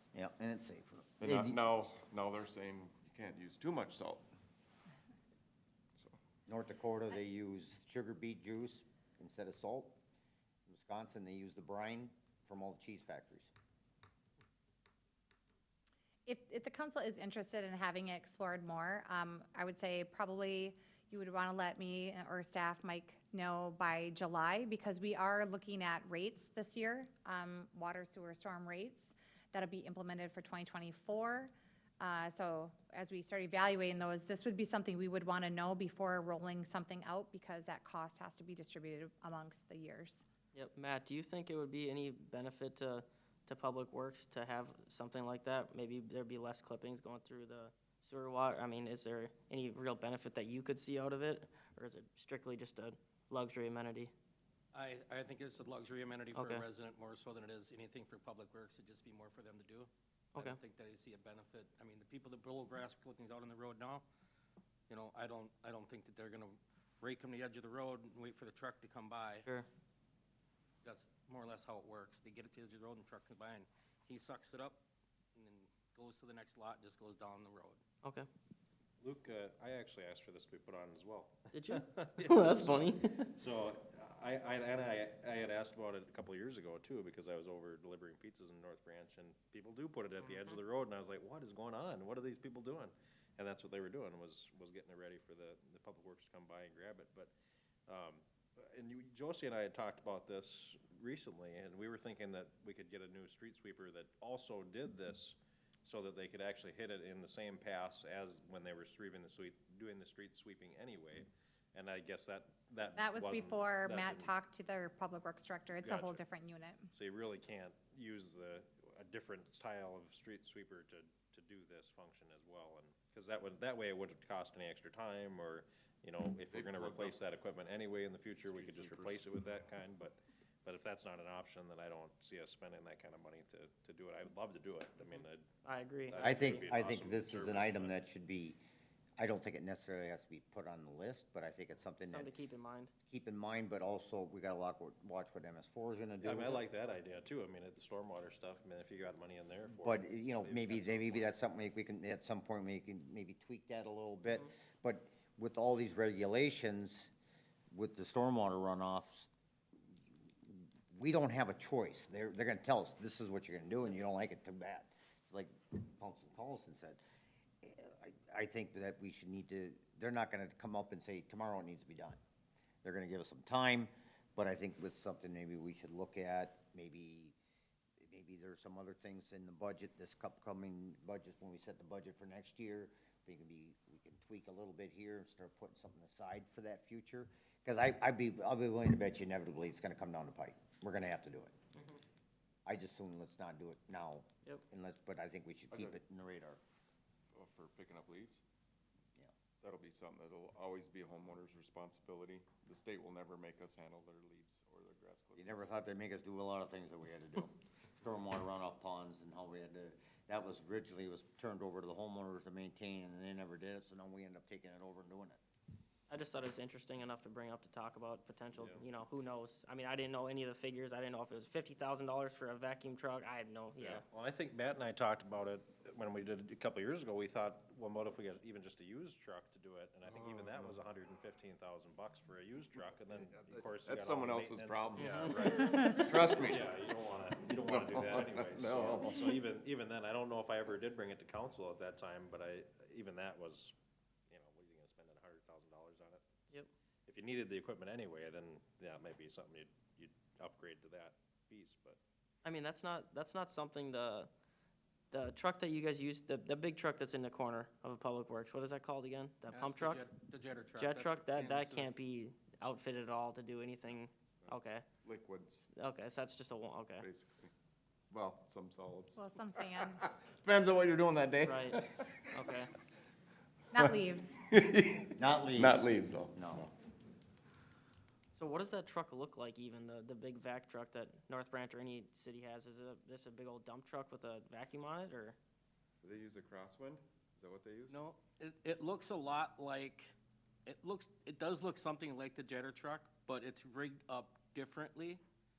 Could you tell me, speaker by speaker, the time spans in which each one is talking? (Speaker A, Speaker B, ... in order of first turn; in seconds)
Speaker A: 0.1-1.6, 6.5-10.0, 10.7-13.5, 136.2-138.6, 139.2-142.3, 143.1-146.6, 149.7-157.1, 157.7-159.3, 160.4-167.0, 167.6-172.2, 172.8-177.3, 178.0-191.5, 192.7-196.6, 205.4-215.4, 275.2-276.7
Speaker B: 1.2-4.3, 126.5-127.2, 128.4-129.2, 195.7-196.0, 197.3-198.4, 199.6-205.7, 233.1-239.4, 264.4-265.6, 267.0-267.5, 268.1-272.3, 274.5-276.7, 286.0-288.0
Speaker C: 16.2-40.2, 113.0-116.9, 269.2-270.0, 273.7-274.4
Speaker D: 40.5-54.1, 56.3-56.6, 78.0-78.3, 81.5-83.3, 135.6-136.7, 142.1-142.9, 216.1-224.0, 252.4-254.3, 255.1-260.0, 260.8-264.8, 265.7-267.1, 271.4-271.8, 272.3-272.7, 278.3-285.4
Speaker E: 54.7-64.0, 64.9-69.5, 70.8-74.8, 75.3-77.8, 259.5-262.0, 287.9-290.1, 290.6-295.2
Speaker F: 79.0-97.3, 97.9-114.3, 115.8-116.2, 116.9-135.5, 136.1-137.9, 146.2-151.3, 218.5-218.8, 223.8-243.7, 244.3-246.4, 247.1-252.0